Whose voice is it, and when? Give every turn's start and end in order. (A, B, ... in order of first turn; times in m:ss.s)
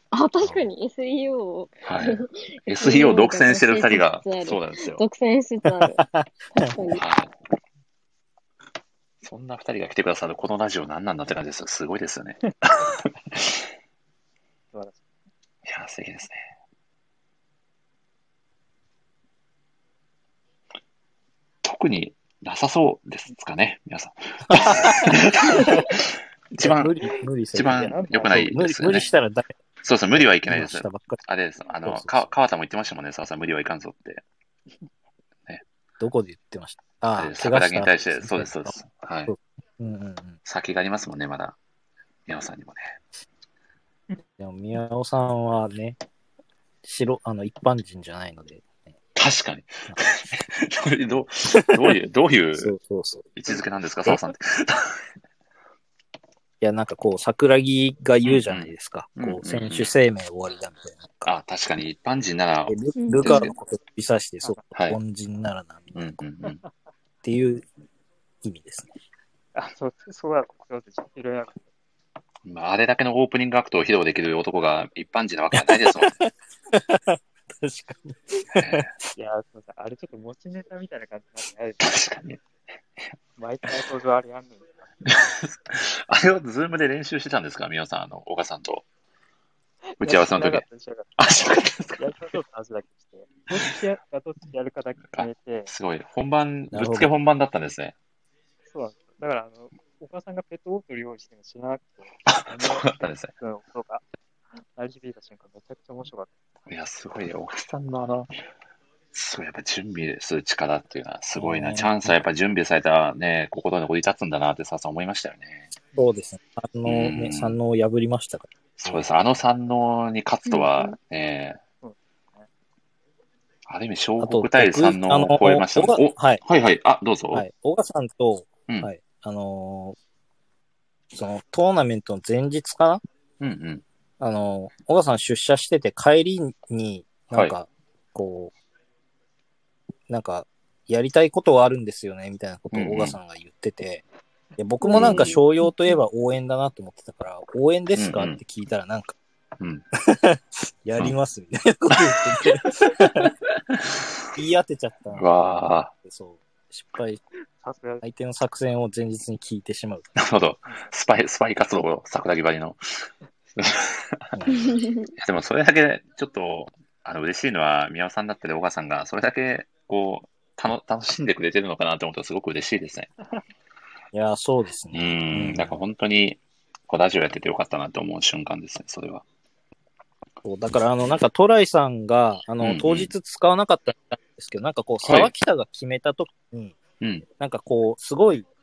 0:00.1-0:07.0 A
0:01.8-0:05.0 B
0:05.8-0:06.7 C
0:06.9-0:07.3 B
0:09.2-0:13.5 B
0:14.7-0:15.1 D
0:15.6-0:16.4 B
0:21.6-0:26.0 B
0:24.5-0:25.8 C
0:26.5-0:26.9 B
0:26.6-0:29.5 C
0:27.5-0:29.1 B
0:27.7-0:28.6 D
0:29.8-0:34.2 B
0:30.5-0:31.2 C
0:31.8-0:32.4 C
0:36.0-0:40.4 C
0:37.2-0:39.3 B
0:40.4-0:41.6 B
0:42.3-0:43.0 B
0:44.4-0:46.0 C
0:46.8-0:48.7 C
0:49.1-0:52.7 B
0:52.6-0:54.2 C
0:53.4-0:55.0 B
0:56.6-1:01.3 C
0:58.2-0:59.9 B
1:01.2-1:03.6 B
1:02.7-1:06.0 C
1:03.0-1:03.5 A
1:04.7-1:05.0 B
1:05.9-1:06.6 B
1:06.4-1:06.7 D
1:07.2-1:07.6 C
1:08.4-1:08.9 C
1:09.5-1:11.7 D
1:12.4-1:16.2 B
1:15.5-1:19.1 C
1:18.5-1:18.9 B
1:19.1-1:22.1 D
1:21.8-1:22.4 B
1:23.4-1:25.2 D
1:25.1-1:28.8 B
1:30.0-1:31.1 D
1:30.0-1:30.6 B
1:31.2-1:32.2 B
1:32.0-1:35.7 D
1:35.1-1:37.9 B
1:36.7-1:37.1 C
1:38.7-1:44.0 D
1:42.3-1:43.3 B
1:44.6-1:46.3 D
1:46.7-1:48.3 B
1:49.1-1:55.7 B
1:51.4-1:52.1 C
1:55.9-1:59.0 C
1:56.8-1:57.6 B
1:58.8-2:01.6 B
2:00.5-2:00.9 A
2:01.8-2:02.5 D
2:03.6-2:07.4 B
2:04.2-2:06.4 C
2:07.3-2:10.0 C
2:11.1-2:13.0 C
2:13.4-2:13.8 B
2:14.2-2:18.5 C
2:20.1-2:24.0 C
2:22.7-2:23.2 B
2:24.6-2:29.2 C
2:24.8-2:25.7 A
2:24.9-2:25.4 B
2:27.9-2:28.4 B
2:29.6-2:29.8 B
2:30.1-2:33.3 C
2:32.8-2:33.3 B
2:34.3-2:37.2 C
2:35.1-2:35.9 B
2:37.6-2:38.0 D
2:38.0-2:40.1 C
2:40.2-2:53.1 B
2:40.6-2:40.9 D
2:44.3-2:44.7 C
2:44.5-2:45.1 A
2:54.1-2:55.8 C
2:54.9-2:59.2 B
3:00.4-3:06.8 C
3:02.6-3:03.1 B
3:05.0-3:05.3 B
3:07.4-3:08.5 C